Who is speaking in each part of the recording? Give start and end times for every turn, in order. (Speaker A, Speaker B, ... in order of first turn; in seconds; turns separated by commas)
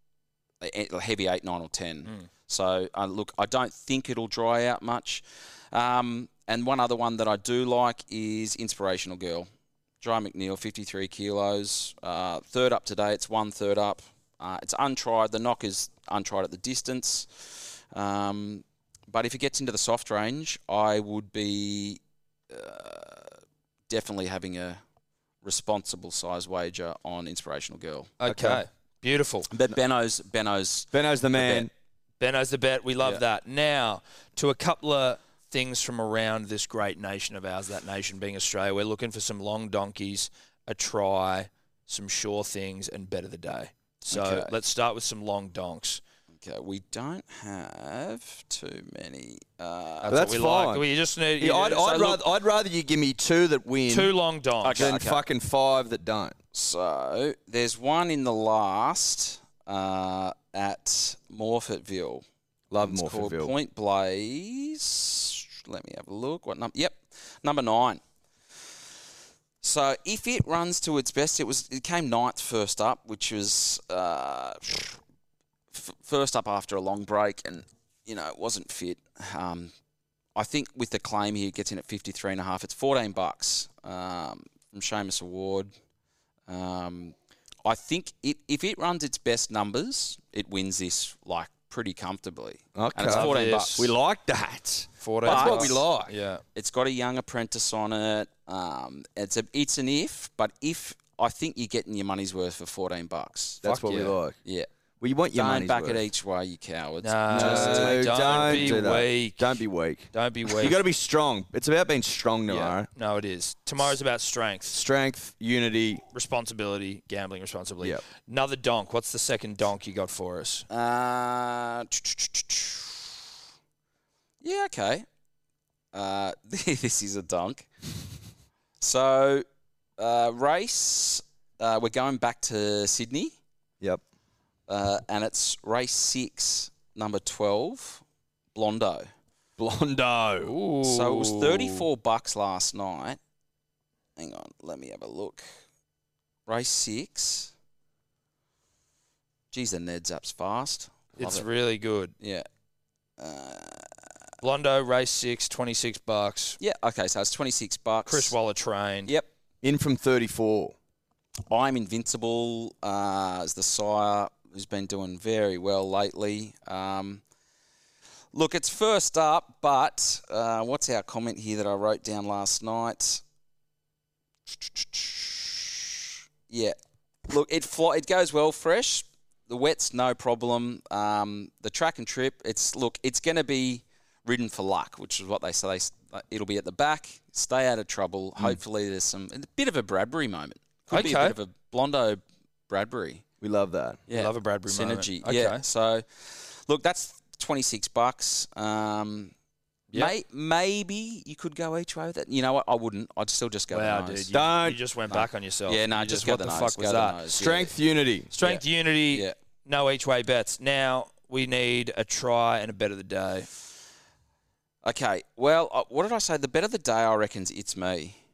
Speaker A: 0.6-9.5, Speaker A: 10.0-23.4, Speaker A: 23.9-24.8, Speaker A: 25.4-28.1, Speaker B: 28.2-29.5, Speaker C: 28.3-28.6, Speaker A: 29.5-31.7, Speaker C: 30.9-31.7, Speaker B: 32.2-46.0, Speaker A: 44.1-44.5, Speaker A: 46.4-50.1, Speaker B: 50.0-52.2, Speaker C: 50.1-50.9, Speaker C: 51.4-54.1, Speaker A: 51.9-52.1, Speaker B: 53.9-55.0, Speaker A: 54.6-55.2, Speaker C: 54.8-56.4, Speaker A: 56.5-62.2, Speaker C: 62.7-63.5, Speaker A: 62.8-68.0, Speaker A: 69.6-75.0, Speaker A: 75.7-79.7, Speaker A: 80.3-85.7, Speaker A: 86.5-87.1, Speaker A: 87.6-93.9, Speaker C: 92.7-96.1, Speaker B: 93.1-93.9, Speaker B: 95.0-96.4, Speaker A: 95.2-95.8, Speaker A: 96.5-103.6, Speaker C: 103.6-104.3, Speaker B: 103.6-104.2, Speaker C: 105.0-106.0, Speaker A: 105.3-108.9, Speaker B: 107.0-109.6, Speaker C: 107.3-112.9, Speaker B: 110.1-110.8, Speaker B: 112.5-114.8, Speaker C: 114.7-116.0, Speaker B: 116.1-120.7, Speaker A: 120.7-123.1, Speaker A: 124.4-125.0, Speaker A: 125.9-127.7, Speaker A: 128.8-129.4, Speaker A: 130.0-133.3, Speaker A: 134.7-138.0, Speaker A: 138.5-139.1, Speaker C: 139.6-140.5, Speaker B: 140.4-141.8, Speaker A: 140.8-143.2, Speaker A: 144.2-145.4, Speaker A: 146.5-147.5, Speaker A: 149.5-151.5, Speaker B: 151.2-152.1, Speaker A: 152.2-152.4, Speaker A: 153.2-153.9, Speaker B: 154.4-156.6, Speaker A: 156.6-158.3, Speaker B: 158.1-159.1, Speaker C: 159.6-160.7, Speaker A: 161.5-167.2, Speaker A: 168.3-173.2, Speaker A: 174.5-176.8, Speaker A: 177.3-193.2, Speaker B: 190.9-191.3, Speaker C: 193.4-194.0, Speaker A: 194.1-199.3, Speaker B: 194.1-195.6, Speaker A: 199.9-204.3, Speaker B: 203.7-207.2, Speaker C: 204.3-204.8, Speaker A: 205.1-207.7, Speaker C: 207.3-208.3, Speaker B: 208.3-213.5, Speaker A: 208.4-209.3, Speaker A: 214.8-218.2